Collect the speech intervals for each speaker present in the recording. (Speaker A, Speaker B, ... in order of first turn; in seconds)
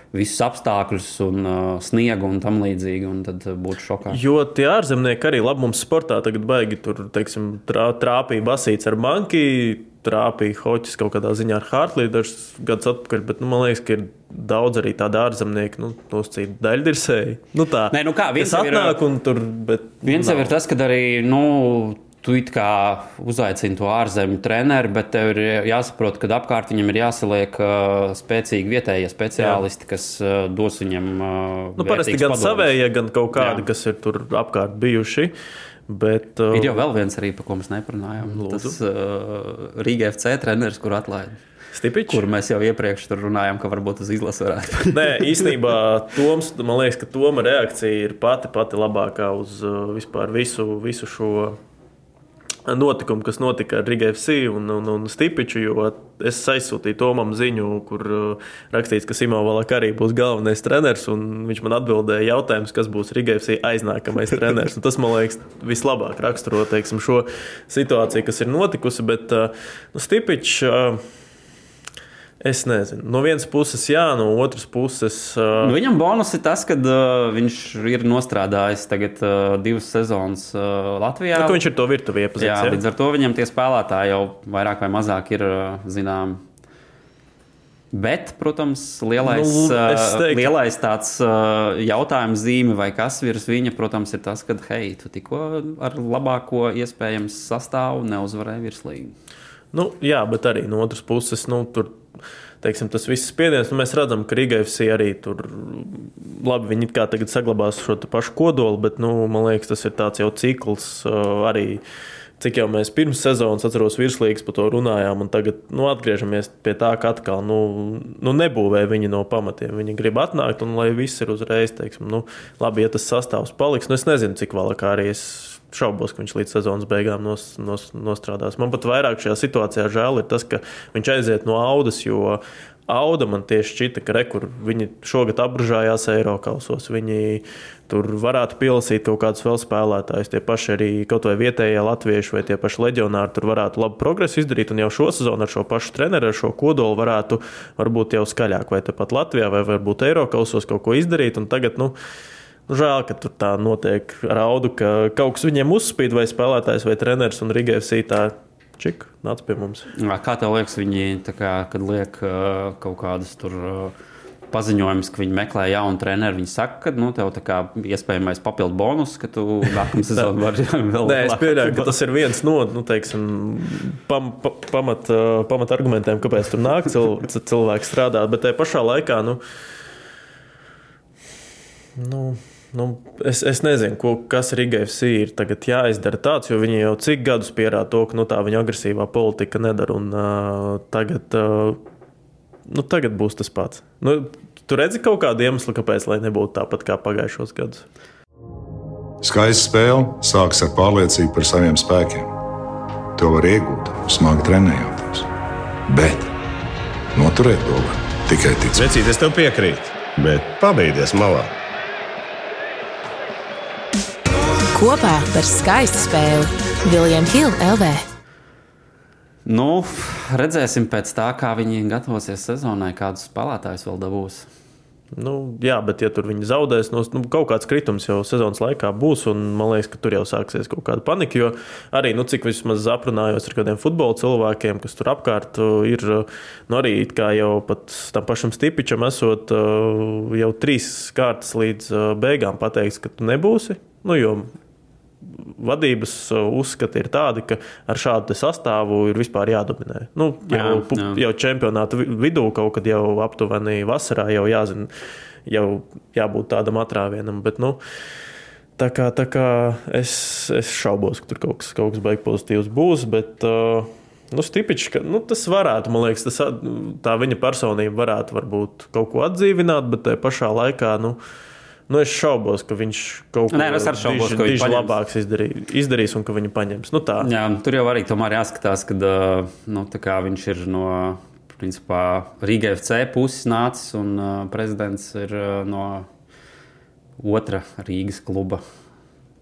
Speaker A: 0.1-4.2, 17.9-19.0, 20.0-32.8, 33.3-33.6, 36.5-41.4, 42.1-45.5, 75.6-81.6, 82.4-86.4, 87.9-99.1, 159.9-163.9, 164.5-171.9, 219.4-224.5, 250.5-251.2, 273.5-274.9, 277.2-286.1, 287.2-288.6
Speaker B: 4.1-20.5, 29.4-29.6, 31.8-35.3, 35.9-36.8, 38.2-38.8, 41.7-42.2, 44.9-51.6, 52.6-71.0, 72.4-75.8, 81.3-82.8, 89.2-90.5, 99.7-102.0, 102.6-111.8, 112.4-151.9, 152.7-159.9, 171.0-179.4, 182.0-191.8, 192.7-197.8, 225.1-244.5, 245.2-254.9, 255.4-257.8, 258.8-271.2, 271.9-277.3
Speaker C: 199.2-202.3, 203.2-205.3, 205.9-206.3, 207.1-208.9
Speaker D: 208.7-211.5
Speaker E: 214.7-218.0